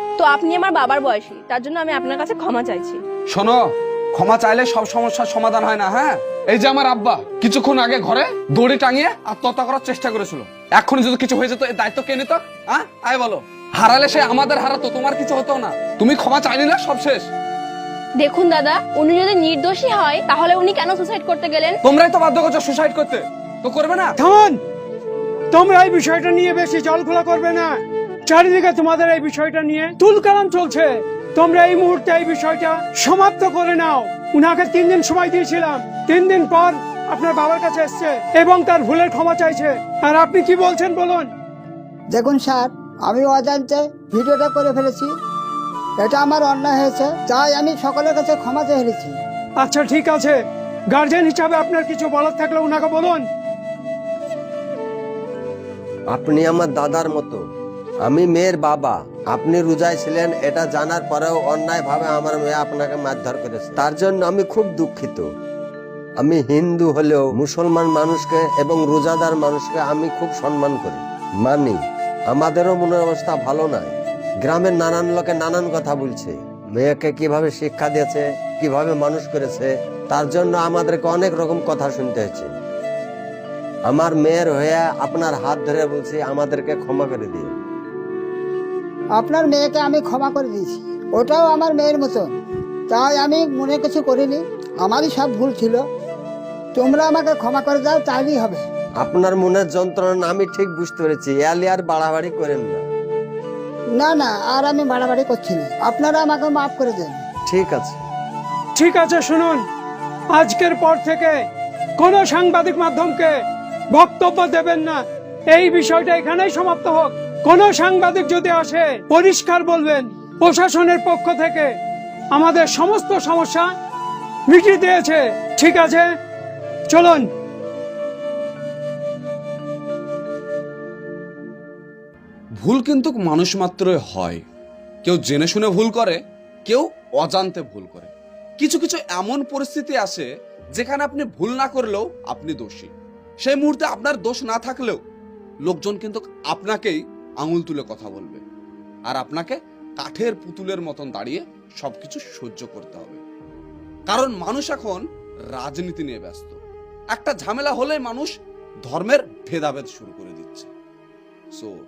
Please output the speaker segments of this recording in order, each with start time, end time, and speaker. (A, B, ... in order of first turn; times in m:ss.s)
0:00.2-0:03.0 A
0:03.3-0:17.3 B
0:18.2-0:21.8 A
0:21.8-0:24.1 B
0:24.2-0:24.6 C
0:25.5-0:41.3 C
0:42.2-0:45.1 D
0:46.0-0:49.2 D
0:49.6-0:50.4 C
0:50.9-0:53.2 C
0:56.1-0:57.4 E
0:58.0-1:05.2 E
1:06.2-1:22.5 E
1:23.9-1:27.5 E
1:29.2-1:32.3 D
1:32.9-1:35.8 D
1:36.8-1:38.6 D
1:39.0-1:42.8 E
1:44.0-1:47.2 D
1:47.5-1:48.0 E
1:48.8-1:49.6 C
1:50.3-1:51.4 C
1:52.0-1:53.4 C
1:53.9-2:01.7 C
2:02.3-2:03.7 C
2:04.5-2:06.1 C
2:06.9-2:07.3 C
2:12.6-2:14.4 B
2:15.0-2:25.0 B
2:25.6-2:28.4 B
2:29.1-2:33.2 B
2:34.1-2:35.0 B
2:35.5-2:36.6 B
2:37.1-2:38.3 B
2:38.8-2:40.7 B